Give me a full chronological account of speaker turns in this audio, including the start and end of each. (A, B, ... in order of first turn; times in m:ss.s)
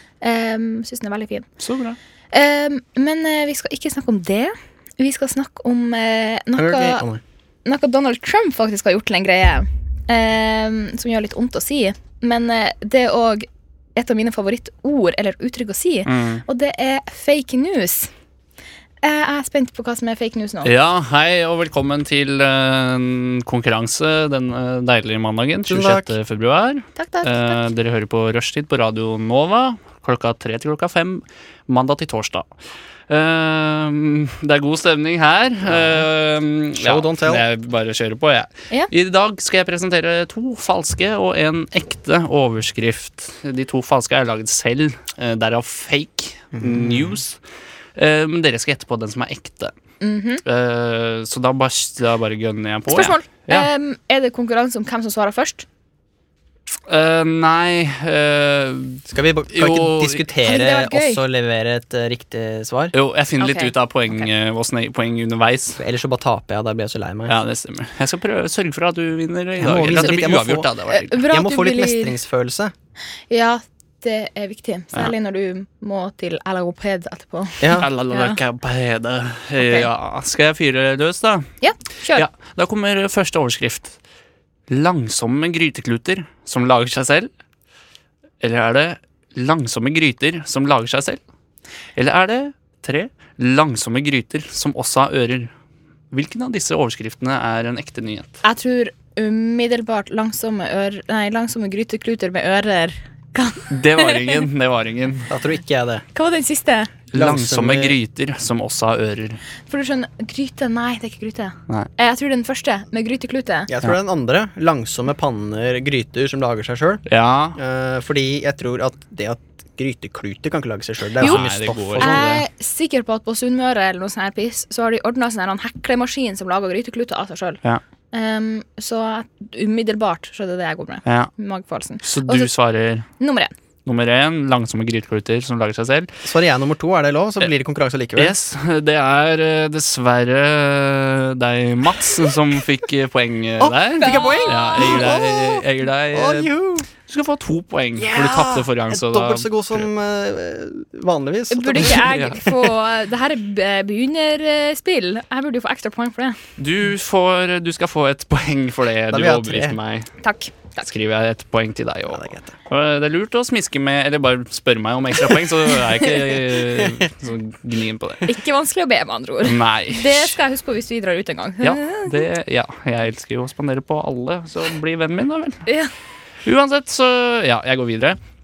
0:00.2-0:01.5 A
0:01.6-0:02.0 B
0:02.3-0:07.0 A
0:06.5-0:07.2 C
0:07.6-0:18.1 A
0:16.0-0:16.4 B
0:19.0-0:20.7 A
0:20.6-0:32.4 B
0:25.7-0:26.1 C
0:27.0-0:27.6 A
0:33.1-0:47.4 B
0:35.6-0:36.1 C
0:36.8-0:37.4 C
0:46.5-0:47.2 C
0:48.0-0:49.7 B
0:50.0-0:50.4 A
0:50.4-0:53.7 B
0:52.9-0:55.6 A
0:56.9-1:00.2 B
0:59.1-1:02.9 C
1:00.4-1:01.2 A
1:02.9-1:05.8 B
1:03.4-1:04.3 A
1:05.8-1:07.4 C
1:07.3-1:11.2 B
1:09.6-1:12.7 C
1:10.9-1:12.2 A
1:13.3-1:18.4 A
1:17.6-1:17.9 C
1:17.8-1:21.5 B
1:19.6-1:19.9 A
1:21.6-1:22.2 A
1:22.1-1:24.0 B
1:24.7-1:27.3 B
1:28.4-1:31.2 B
1:32.0-1:35.5 B
1:36.1-1:38.4 B
1:38.4-1:44.4 A
1:43.7-1:45.3 B
1:45.3-1:46.0 C
1:46.1-1:46.9 A
1:47.1-1:49.4 B
1:47.1-1:48.0 C
1:49.7-1:53.7 A
1:53.7-1:57.0 C
1:57.1-1:57.6 B
1:57.5-2:02.4 C
2:01.2-2:02.4 B
2:02.0-2:07.6 A
2:08.1-2:12.5 A
2:11.0-2:11.3 B
2:12.0-2:13.1 B
2:13.2-2:13.5 A
2:13.8-2:16.1 B
2:16.2-2:18.3 C
2:18.2-2:26.5 B
2:23.6-2:26.9 C
2:24.0-2:24.9 A
2:27.1-2:29.9 B
2:28.0-2:32.1 C
2:31.5-2:36.4 A
2:32.0-2:32.4 B
2:36.6-2:40.1 B
2:39.1-2:39.8 C
2:40.2-2:40.8 A
2:40.8-2:48.3 B
2:42.1-2:42.5 C
2:48.3-2:52.1 A
2:49.4-2:50.4 B
2:51.6-2:55.6 B
2:56.4-2:58.2 B